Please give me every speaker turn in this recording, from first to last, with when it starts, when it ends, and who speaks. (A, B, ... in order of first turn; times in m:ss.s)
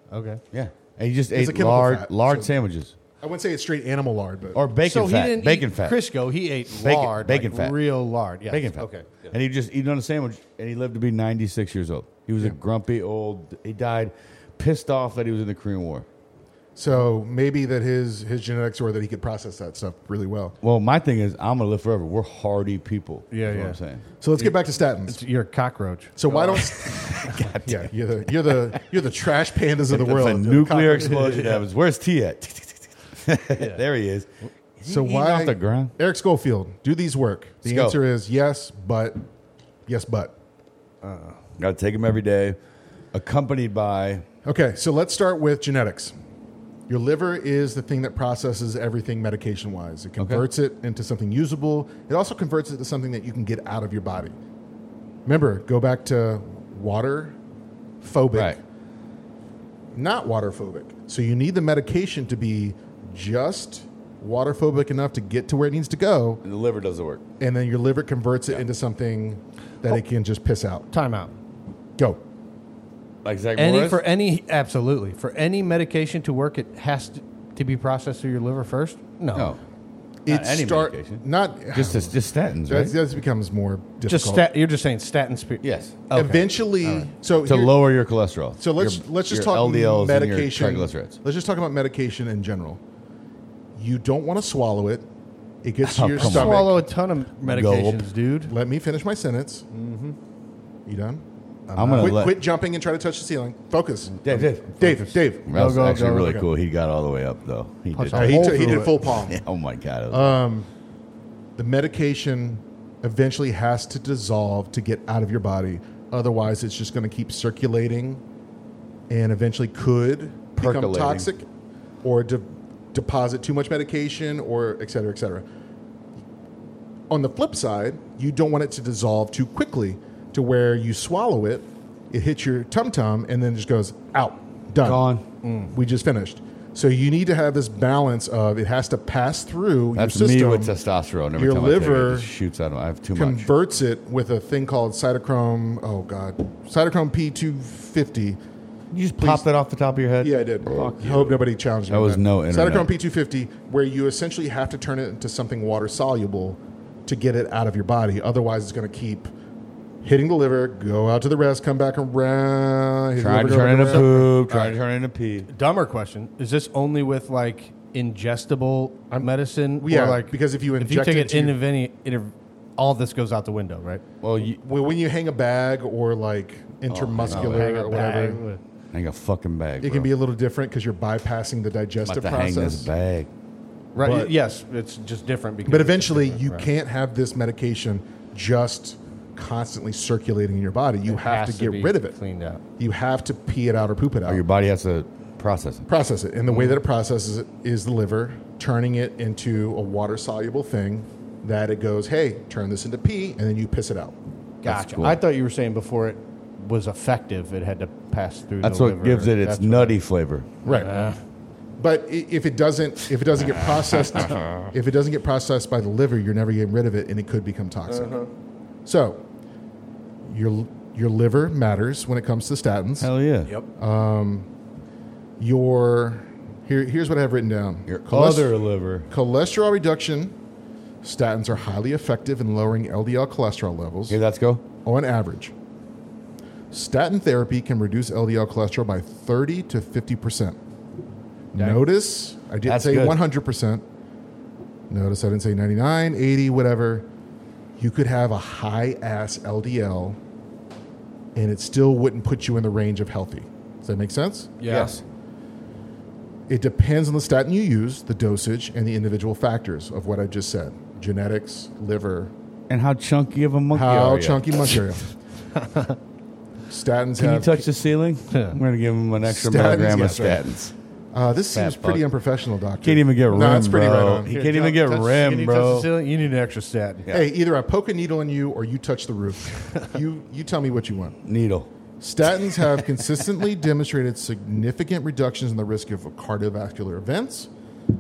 0:00.1-0:00.4 A
0:00.5-0:03.0 B
0:01.3-0:02.5 C
0:03.2-0:04.6 C
0:04.5-0:06.0 B
0:04.8-0:09.3 A
0:06.7-0:07.8 B
0:08.5-0:16.1 B
0:16.8-0:20.6 C
0:20.6-0:24.0 B
0:23.3-0:23.8 A
0:24.2-0:25.2 C
0:24.4-0:27.5 A
0:26.2-0:31.5 C
0:26.9-0:27.9 B
0:29.9-0:35.9 B
0:31.1-0:31.6 A
0:33.6-0:33.8 A
0:34.8-0:39.2 C
0:37.6-0:38.0 B
0:39.9-0:40.3 C
0:41.0-0:41.4 A
0:41.6-0:42.6 B
0:43.1-0:44.2 B
0:44.4-0:46.1 C
0:46.9-0:54.3 C
0:50.2-0:50.4 B
0:55.3-0:57.4 C
0:58.0-0:58.6 C
0:59.9-1:06.4 C
1:06.4-1:07.2 B
1:07.4-1:10.9 C
1:10.9-1:11.3 A
1:13.2-1:14.0 B
1:13.6-1:19.6 A
1:19.3-1:19.6 B
1:20.3-1:24.5 C
1:20.3-1:23.0 B
1:24.1-1:27.1 A
1:25.6-1:26.4 B
1:26.1-1:27.8 C
1:27.4-1:31.2 B
1:28.6-1:32.8 C
1:33.8-1:35.1 C
1:35.6-1:36.8 C
1:35.8-1:36.8 B
1:36.2-1:38.5 A
1:37.4-1:38.1 B
1:38.5-1:39.8 C
1:39.7-1:40.2 A
1:40.9-1:41.2 C
1:41.7-1:42.3 A
1:41.8-1:42.4 B
1:42.0-1:45.6 C
1:44.2-1:44.7 B
1:44.8-1:46.4 A
1:45.5-1:50.4 B
1:48.0-1:49.1 A
1:48.1-1:49.4 C
1:50.1-1:50.7 C
1:51.6-1:58.2 C
1:59.1-2:01.5 C
2:00.6-2:01.3 B
2:02.0-2:05.4 C
2:07.1-2:15.0 C
2:14.8-2:15.2 B
2:15.4-2:15.7 A
2:15.7-2:20.8 C
2:20.0-2:23.5 B
2:21.4-2:22.3 C
2:23.2-2:28.4 C
2:28.9-2:32.9 B
2:29.2-2:29.4 C
2:30.2-2:39.3 C
2:40.0-2:44.3 C
2:43.2-2:45.5 B
2:43.9-2:44.8 A
2:45.5-2:54.0 A
2:49.1-2:51.6 C
2:54.2-2:54.6 B
2:54.6-2:58.4 C
2:56.9-2:57.7 B
2:57.3-2:58.6 A
2:58.9-3:00.1 B
2:59.8-3:02.9 C
3:02.0-3:03.3 B
3:04.0-3:04.3 C
3:04.0-3:06.7 A
3:05.7-3:12.2 C
3:11.1-3:12.6 A
3:12.8-3:14.4 C
3:14.3-3:15.9 B
3:15.9-3:24.2 C
3:16.5-3:16.8 A
3:24.6-3:30.0 A
3:24.6-3:25.2 B
3:28.6-3:30.5 B
3:30.6-3:31.0 C
3:30.7-3:31.2 A
3:31.8-3:38.2 C
3:34.2-3:34.5 B
3:37.9-3:38.3 A
3:38.8-3:39.2 C
3:40.3-3:43.1 C
3:43.0-3:43.5 B
3:43.8-3:44.5 C
3:45.4-3:48.6 C
3:47.9-3:49.1 B
3:49.1-3:50.3 C
3:51.0-3:54.2 C
3:54.1-3:54.6 B
3:54.8-3:55.5 C
3:56.7-4:00.6 C
4:01.5-4:03.8 C
4:01.6-4:01.8 A
4:02.6-4:03.2 B
4:04.9-4:07.1 C
4:07.8-4:10.2 C
4:11.4-4:14.6 C
4:14.6-4:15.0 A
4:14.7-4:15.0 B
4:16.5-4:22.3 C
4:22.7-4:24.7 B
4:23.7-4:25.0 C
4:25.6-4:26.0 A
4:26.7-4:27.7 C
4:27.2-4:30.7 B
4:28.3-4:28.6 A
4:29.2-4:30.6 C
4:31.1-4:34.3 C
4:31.5-4:32.0 B
4:32.8-4:35.9 B
4:34.3-4:37.1 A
4:37.1-4:41.2 C
4:41.2-4:41.7 B
4:42.0-4:47.5 C